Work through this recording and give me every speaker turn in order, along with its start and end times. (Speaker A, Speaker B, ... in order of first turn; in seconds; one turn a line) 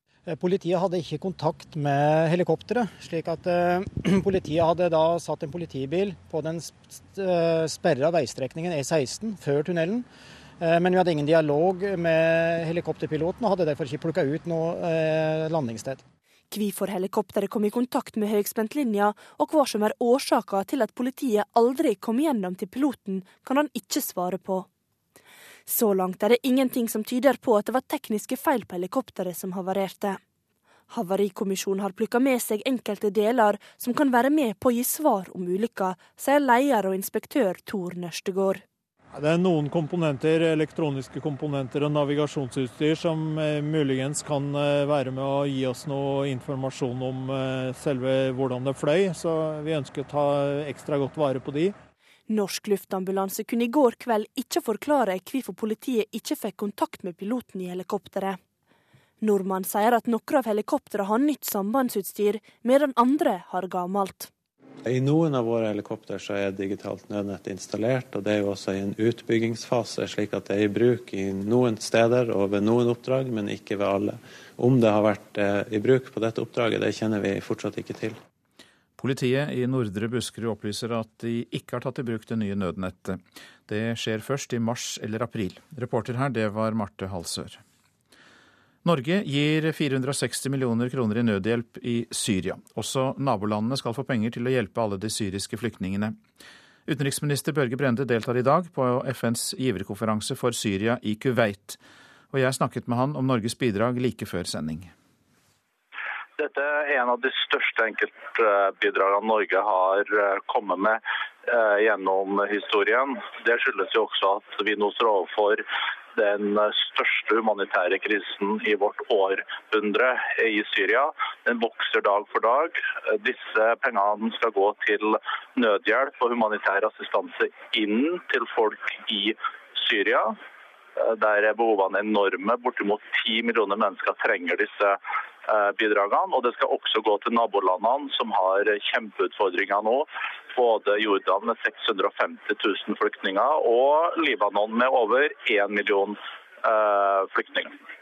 Speaker A: 0.2-10.1
Speaker A: 10.6-16.0
Speaker B: 16.5-24.7
Speaker B: 25.7-30.2
Speaker B: 30.9-38.6
Speaker C: 39.1-51.7
Speaker B: 52.3-58.4
Speaker B: 59.2-64.3
Speaker D: 64.8-78.2
Speaker E: 79.0-87.6
Speaker E: 88.8-96.2
Speaker E: 96.9-101.8
Speaker E: 102.3-104.9
Speaker F: 106.4-115.6
Speaker F: 116.1-130.4
Speaker F: 131.0-147.7